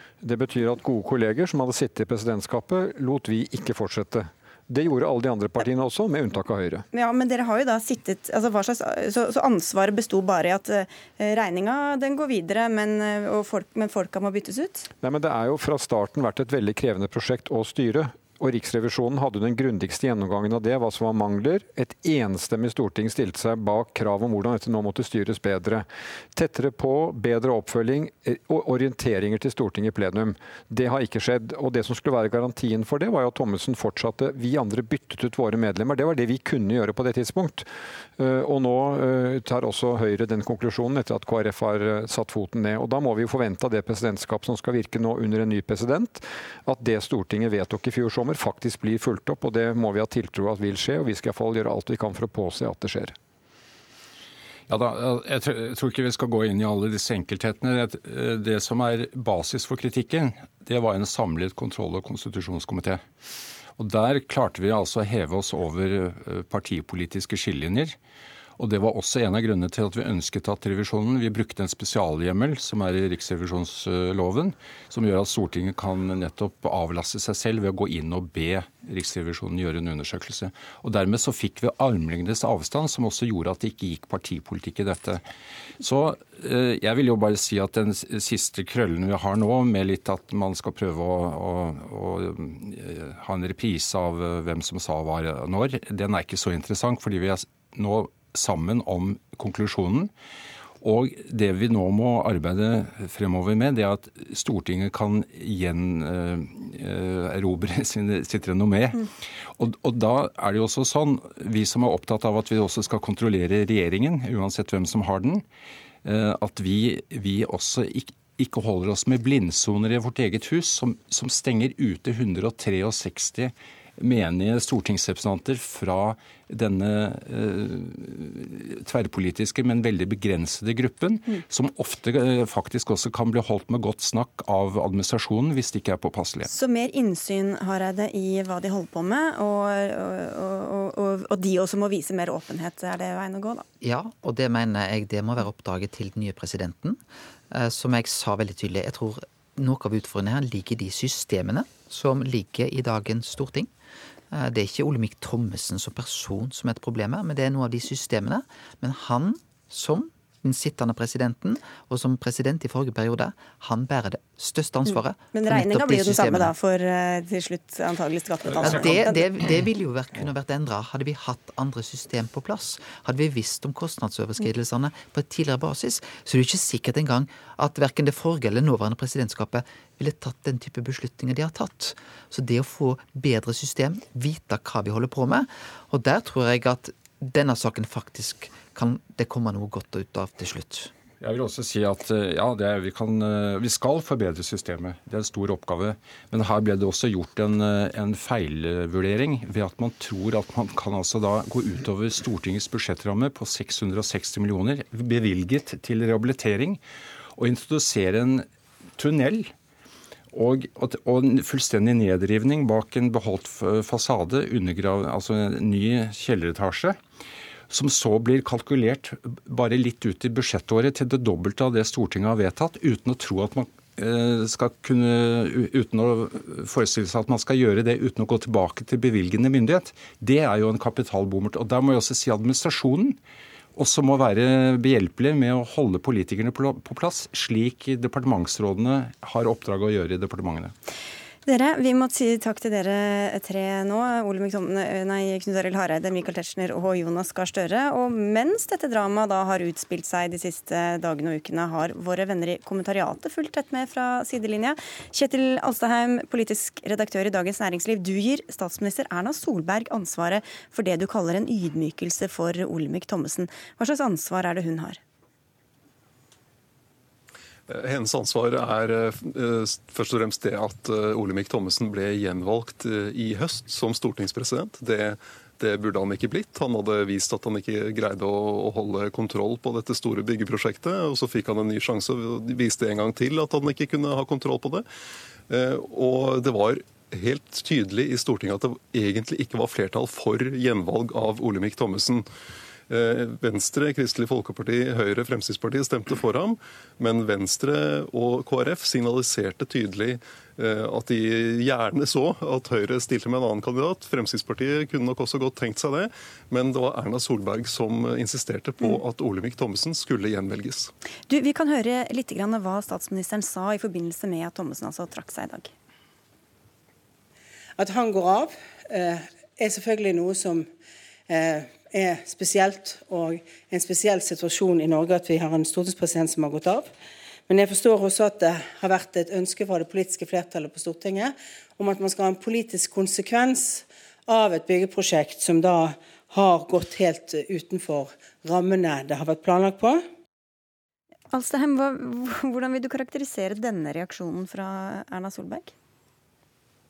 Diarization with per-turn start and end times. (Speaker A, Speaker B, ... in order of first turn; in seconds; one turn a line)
Speaker A: 0.2-6.8
Speaker B: 6.9-14.9
Speaker A: 15.0-53.1
Speaker C: 54.7-63.0
Speaker C: 63.8-68.0
Speaker C: 68.6-85.2
Speaker C: 85.8-100.1
Speaker C: 100.8-109.1
Speaker C: 109.6-115.4
Speaker C: 116.0-136.5
Speaker B: 136.5-143.6
Speaker D: 143.8-153.7
Speaker D: 154.3-166.5
Speaker B: 165.3-169.5
Speaker D: 168.6-190.9
Speaker C: 191.2-206.8
Speaker C: 207.3-209.5
Speaker C: 210.3-217.0
Speaker C: 217.7-233.2
Speaker C: 233.7-240.7
Speaker B: 241.4-265.0
Speaker E: 267.7-284.8
Speaker E: 285.5-292.2
Speaker E: 292.9-310.9
Speaker B: 311.3-315.7
Speaker F: 317.8-320.7
Speaker F: 321.3-326.9
Speaker F: 327.5-340.1
Speaker B: 341.3-345.7